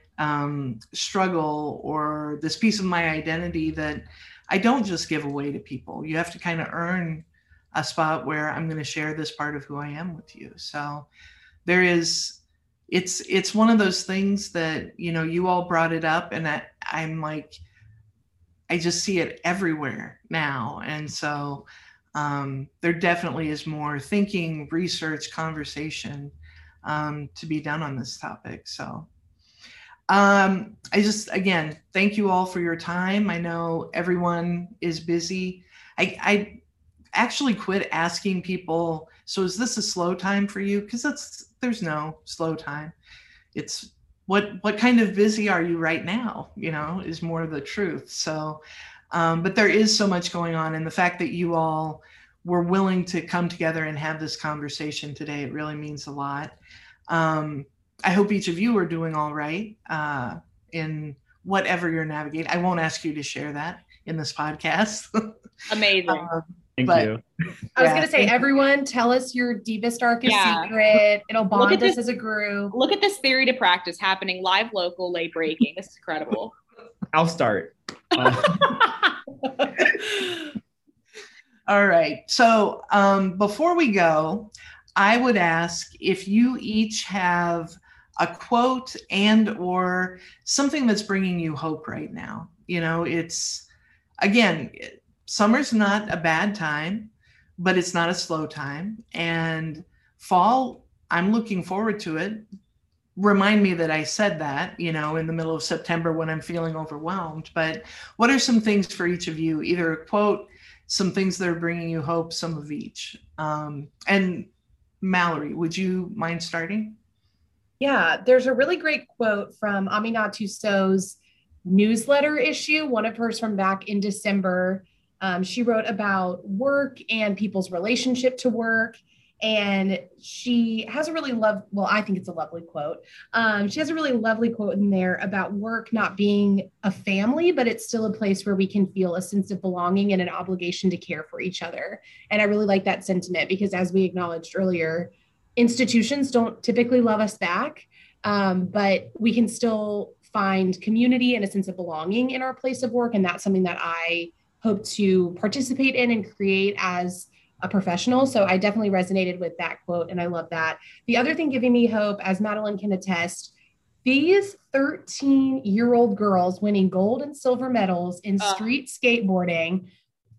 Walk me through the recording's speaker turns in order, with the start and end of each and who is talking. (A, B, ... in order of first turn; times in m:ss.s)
0:00.2-0:11.1 A
0:11.6-0:17.6 A
0:18.7-0:26.3 A
0:26.8-0:29.1 A
0:30.1-0:36.6 A
0:37.1-0:43.0 A
0:43.5-0:56.6 A
0:57.1-1:05.4 A
1:05.7-1:06.3 B
1:06.1-1:07.1 A
1:06.8-1:07.2 C
1:07.8-1:08.3 A
1:07.8-1:12.7 D
1:10.2-1:10.7 B
1:11.6-1:12.0 B
1:12.7-1:16.5 B
1:17.1-1:18.8 C
1:21.7-1:33.7 A
1:34.2-1:42.4 A
1:43.2-1:54.5 A
1:55.0-1:57.0 A
1:57.8-2:43.5 D
2:44.0-2:49.9 D